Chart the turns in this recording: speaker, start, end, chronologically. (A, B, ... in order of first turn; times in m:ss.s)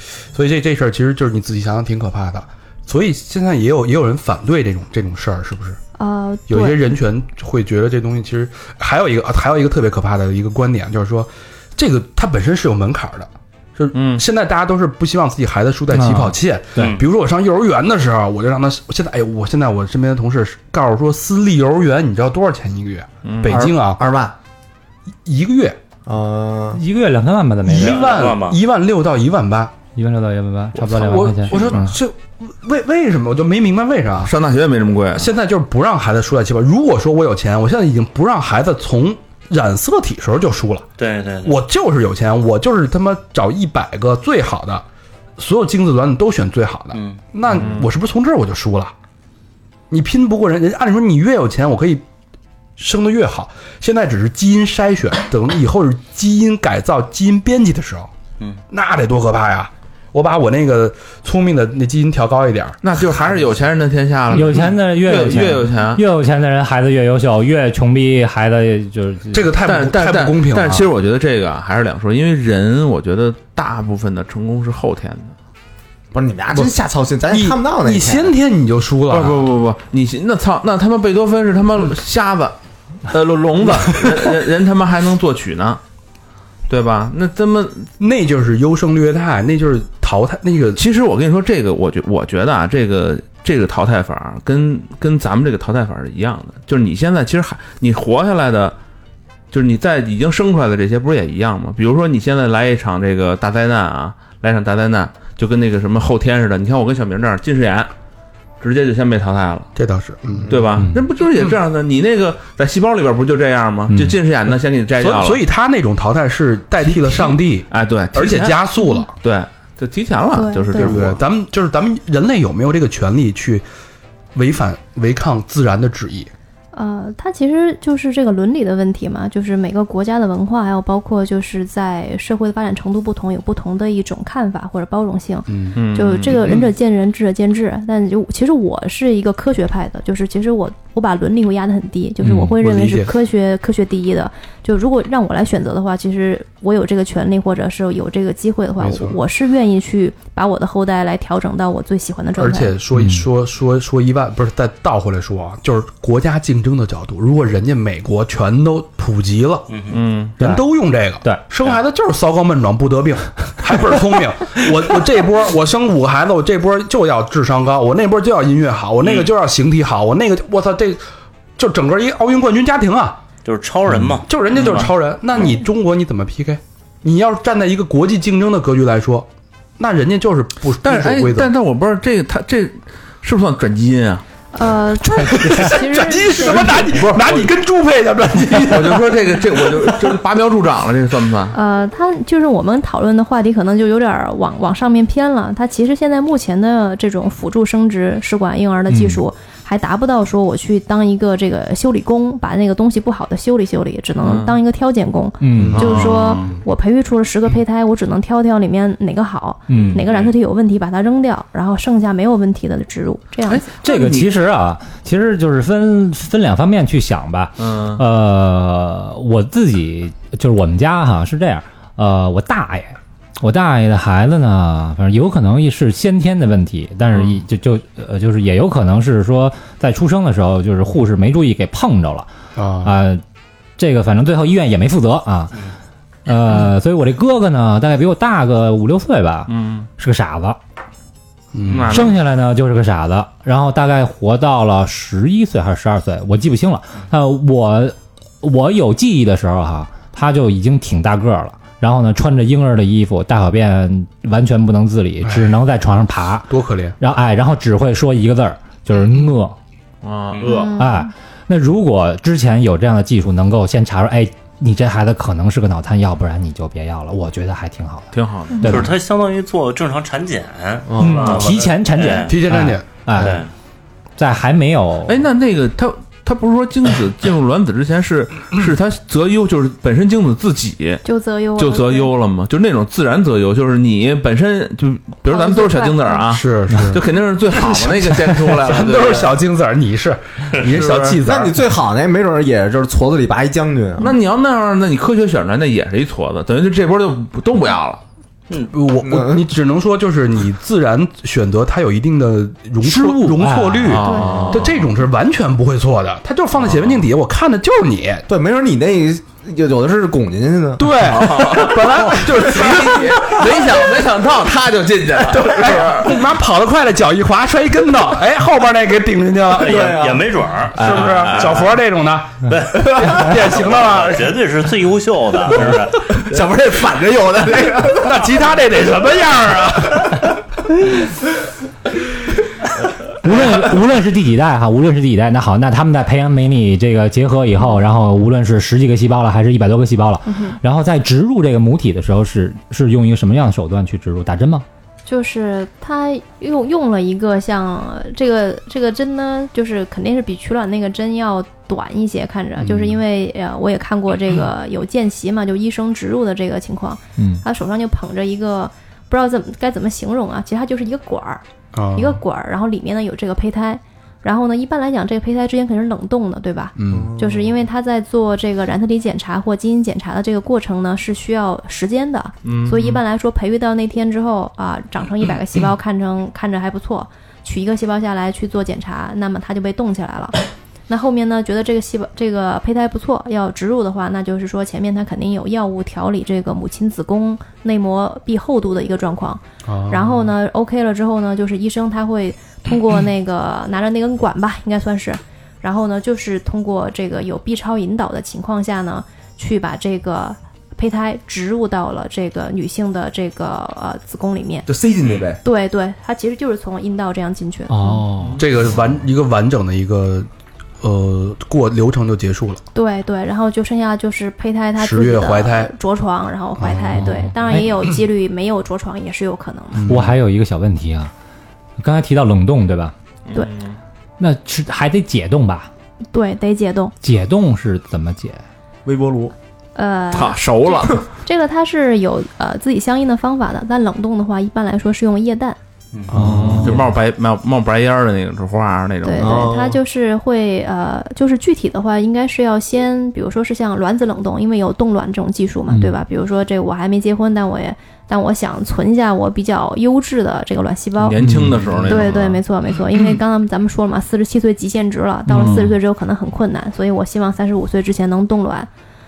0:00.3-0:05.8 A
0:06.0-0:06.8 B
0:06.5-0:24.0 A
0:13.9-0:14.2 C
0:15.9-0:16.9 D
0:16.8-0:17.0 E
0:23.2-0:23.6 C
0:23.5-0:24.3 F
0:25.2-0:25.8 A
0:26.0-0:26.8 F
0:26.7-0:28.0 D
0:27.6-0:28.6 E
0:27.7-0:29.7 A
0:30.0-0:31.8 D
0:30.8-0:31.9 C
0:30.9-0:34.3 A
0:34.2-0:35.3 C
0:35.1-0:40.9 A
0:41.0-0:41.6 E
0:41.4-0:44.8 A
0:45.4-0:48.9 A
0:46.9-0:47.2 E
0:47.5-0:47.9 C
0:49.9-0:52.0 A
0:52.8-0:58.1 A
0:58.7-1:02.8 A
1:02.8-1:06.0 C
1:04.3-1:09.5 D
1:09.3-1:10.9 A
1:09.6-1:15.3 C
1:16.1-1:18.3 F
1:17.3-1:19.4 A
1:19.1-1:22.6 C
1:23.1-1:25.8 C
1:26.7-1:27.9 C
1:28.0-1:30.8 A
1:30.8-1:38.8 C
1:39.5-1:47.9 C
1:48.6-1:49.7 C
1:49.7-1:50.5 A
1:50.5-1:55.4 C
1:50.8-1:51.0 D
1:53.9-1:54.2 D
1:55.0-1:59.1 A
1:56.8-1:58.6 C
1:58.8-1:59.0 B
1:59.2-2:01.2 C
2:00.3-2:00.9 B
2:00.8-2:03.6 A
2:04.3-2:06.3 A
2:06.7-2:32.8 B
2:15.5-2:15.8 A
2:15.7-2:16.7 C
2:22.2-2:22.6 D
2:22.6-2:23.1 A
2:28.8-2:29.2 A
2:32.4-2:39.7 A
2:32.9-2:33.2 D
2:39.7-2:40.0 E
2:39.9-2:40.4 C
2:40.4-2:51.0 A
2:51.6-2:53.2 A
2:53.4-2:54.9 E
2:54.0-2:54.8 C
2:54.2-3:01.5 A
3:00.8-3:04.2 C
3:04.5-3:06.9 B
3:05.1-3:10.2 A
3:06.9-3:07.4 C
3:08.6-3:11.5 C
3:11.5-3:33.8 B
3:18.9-3:19.2 D
3:24.2-3:24.6 C
3:25.4-3:26.0 D
3:25.6-3:26.0 F
3:25.7-3:26.6 C
3:29.7-3:30.0 D
3:30.0-3:30.3 C
3:33.5-3:34.3 C
3:33.8-3:52.3 D
3:37.6-3:38.0 C
3:47.1-3:47.4 C
3:52.6-3:52.9 A
3:52.8-3:53.2 D
3:53.8-3:55.7 D
3:56.2-4:00.6 D
3:59.5-3:59.9 C
4:01.5-4:02.0 A
4:01.7-4:02.2 C
4:01.9-4:19.6 D
4:15.2-4:15.5 A
4:16.5-4:17.0 A
4:20.0-4:20.7 C
4:20.3-4:20.7 E
4:20.4-4:21.1 B
4:20.7-4:29.0 D
4:28.1-4:28.9 C
4:28.6-4:32.4 E
4:30.9-4:31.2 F
4:31.0-4:33.4 D
4:31.2-4:31.6 A
4:32.2-4:33.0 A
4:33.1-4:33.5 E
4:34.2-4:35.2 D
4:35.1-4:41.0 C
4:41.0-4:42.1 B
4:41.6-4:49.4 C
4:45.3-4:46.2 B
4:46.3-4:47.0 A
4:47.5-4:51.6 A
4:50.6-4:51.2 C
4:51.2-4:54.1 F
4:54.0-4:58.0 C
4:58.6-5:08.2 A
4:59.0-4:59.4 F
5:02.8-5:04.1 D
5:03.8-5:04.8 C
5:04.0-5:04.3 B
5:06.6-5:07.0 C
5:08.3-5:13.4 F
5:10.8-5:13.4 A
5:11.0-5:16.2 C
5:15.3-5:15.9 F
5:15.4-5:19.9 A
5:19.6-5:21.7 E
5:19.6-5:21.2 F
5:20.8-5:24.4 A
5:21.1-5:21.4 C
5:22.5-5:26.2 E
5:22.8-5:23.2 F
5:26.1-5:28.3 F
5:28.0-5:30.3 A
5:33.2-5:44.6 D
5:40.3-5:40.6 B
5:45.0-6:01.4 B
5:52.6-5:53.0 A
5:57.2-5:57.4 D
6:01.7-6:02.2 A
6:01.9-6:20.4 B
6:06.8-6:07.1 A
6:06.9-6:07.5 F
6:12.4-6:13.0 C
6:20.9-6:44.7 B
6:29.6-6:30.3 A
6:44.6-6:45.4 F
6:45.4-6:48.1 B
6:47.7-6:48.4 D
6:48.4-6:50.3 A
6:50.8-6:52.6 A
6:52.7-6:59.9 B
6:54.8-6:55.7 A
6:56.6-6:57.2 A
6:57.0-6:57.8 D
6:59.7-7:00.1 A
6:59.8-7:01.1 D
7:01.8-7:02.9 D
7:03.3-7:03.8 C
7:04.2-7:05.7 D
7:06.1-7:06.9 B
7:07.0-7:08.4 D
7:08.8-7:09.3 F
7:09.8-7:15.6 B
7:10.1-7:11.0 C
7:16.1-7:16.7 F
7:16.1-7:16.8 D
7:16.4-7:19.5 C
7:19.0-7:31.2 B
7:19.2-7:19.8 F
7:25.7-7:26.0 D
7:31.0-7:32.4 C
7:31.2-7:31.8 D
7:31.9-7:38.7 B
7:35.3-7:35.8 D